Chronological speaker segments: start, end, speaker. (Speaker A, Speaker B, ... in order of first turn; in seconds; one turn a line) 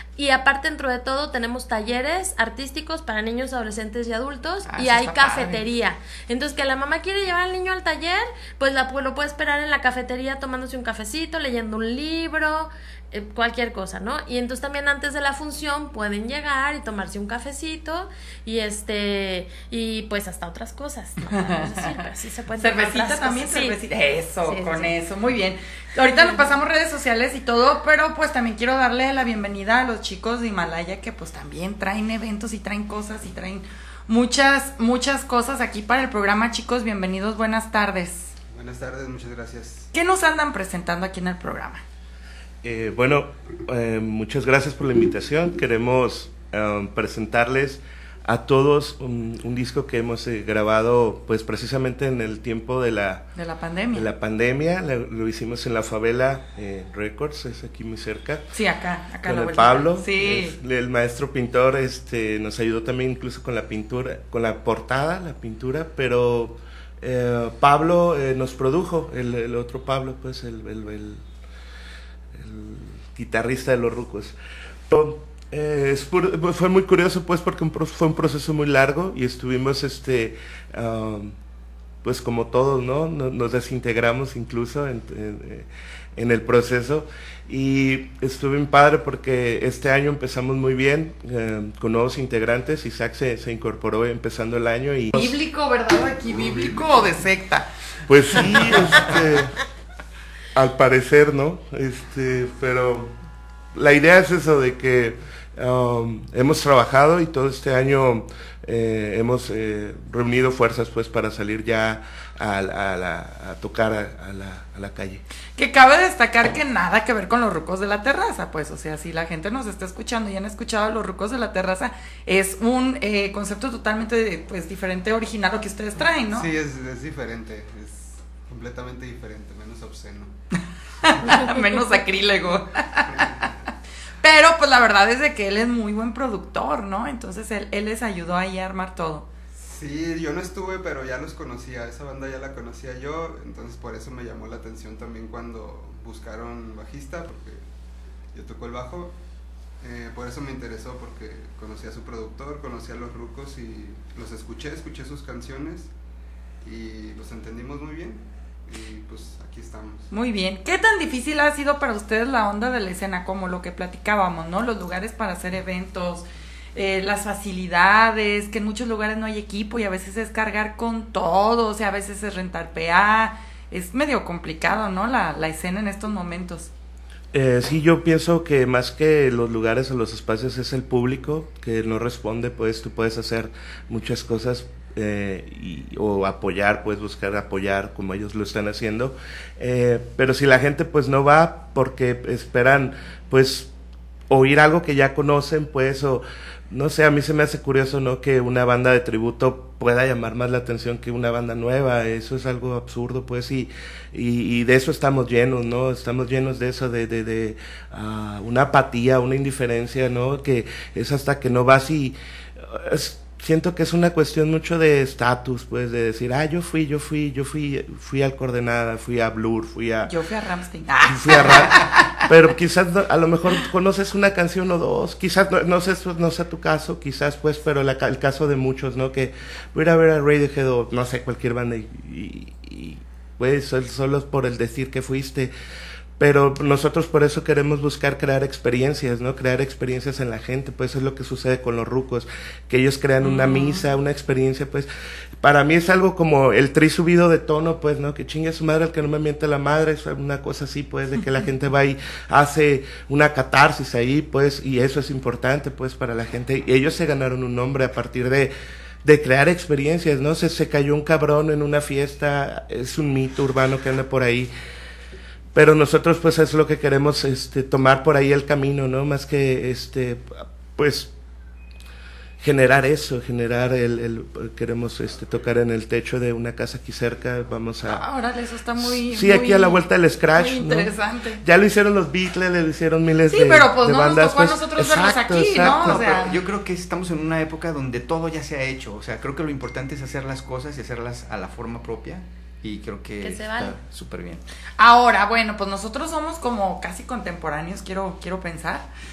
Speaker A: 0.2-23.8
Speaker B: 4.7-5.6
Speaker B: 21.3-22.0
Speaker B: 22.6-38.3
Speaker A: 24.4-24.9
Speaker A: 26.1-26.4
Speaker C: 38.5-39.9
Speaker B: 39.9-41.8
Speaker D: 42.6-53.3
Speaker B: 53.4-54.0
Speaker D: 53.9-58.4
Speaker B: 58.5-60.6
Speaker D: 59.2-71.2
Speaker D: 72.3-74.3
Speaker D: 74.9-81.3
Speaker D: 82.0-95.3
Speaker B: 95.1-97.7
Speaker D: 98.1-99.5
Speaker B: 98.3-99.1
Speaker D: 100.5-103.1
Speaker D: 103.7-115.2
Speaker B: 115.5-126.5
Speaker C: 126.3-130.3
Speaker B: 131.0-133.3
Speaker B: 134.2-139.3
Speaker C: 139.6-147.6
Speaker C: 148.3-149.1
Speaker C: 149.8-155.9
Speaker C: 156.6-160.1
Speaker B: 160.1-176.7
Speaker D: 177.3-193.7
Speaker D: 194.3-220.1
Speaker B: 220.1-222.2
Speaker D: 221.0-235.5
Speaker D: 236.2-244.9
Speaker B: 243.2-243.9
Speaker D: 245.4-258.5
Speaker D: 259.0-264.5
Speaker D: 265.5-271.1
Speaker D: 272.4-278.0
Speaker B: 277.8-281.4
Speaker D: 278.8-286.3
Speaker B: 283.3-286.3
Speaker E: 285.6-294.4
Speaker A: 293.2-293.8
Speaker B: 294.8-298.9